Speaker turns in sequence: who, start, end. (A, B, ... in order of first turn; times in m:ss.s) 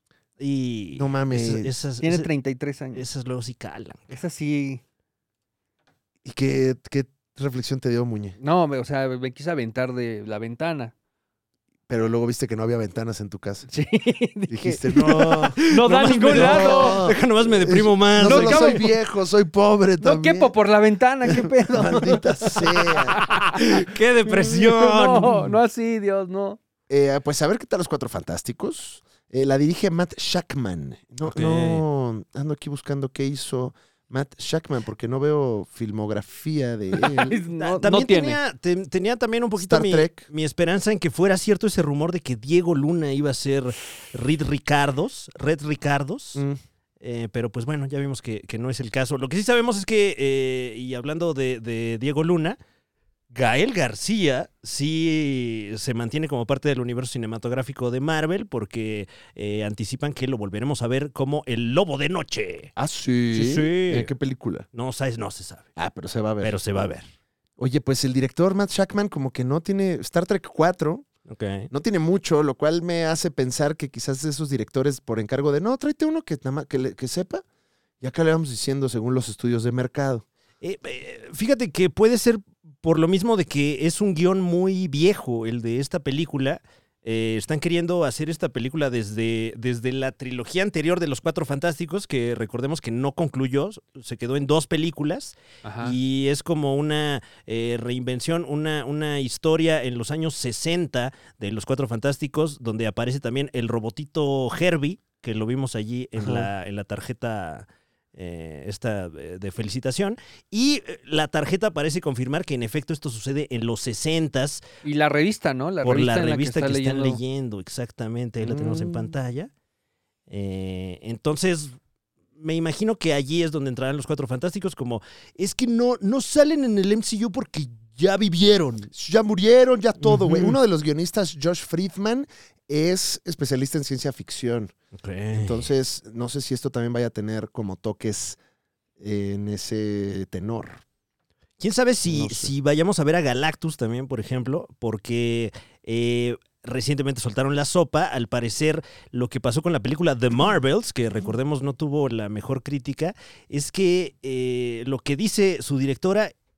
0:00.4-0:02.3 A
0:01.0-0:01.7 B
0:02.0-0:03.0 C
0:02.9-0:04.1 A
0:04.1-0:04.8 C
0:06.2-0:08.4 B
0:08.4-0:10.9 C
0:11.9-0:13.7 B
0:13.7-0:17.0 C
0:14.5-0:15.6 B
0:14.9-0:18.8 A
0:16.3-0:20.5 B
0:18.2-0:18.9 C
0:20.0-0:22.2 C
0:21.2-0:23.2 B
0:22.9-0:26.6 C
0:23.2-0:25.5 A
0:26.9-0:37.4 B
0:31.2-0:31.8 A
0:37.1-0:38.4 C
0:37.6-0:46.4 A
0:39.6-0:40.3 B
0:47.0-0:52.6 A
0:53.3-1:02.7 A
1:02.8-1:04.7 B
1:03.3-1:04.1 A
1:04.7-1:05.7 A
1:05.8-1:06.6 B
1:06.4-1:07.1 A
1:07.6-1:11.1 B
1:11.3-1:11.7 A
1:11.7-1:17.4 B
1:18.0-1:20.2 B
1:20.6-1:54.6 A
1:35.6-1:36.0 C
1:46.2-1:46.5 B
1:54.8-1:57.2 C
1:55.8-1:59.5 A
1:58.4-1:59.2 B
2:00.3-2:01.8 A
2:02.4-2:08.9 A
2:08.9-2:14.7 B
2:10.0-2:10.6 A
2:15.0-2:15.7 A
2:15.3-2:18.4 B
2:19.0-2:20.8 B
2:21.6-2:36.3 A
2:22.0-2:22.5 B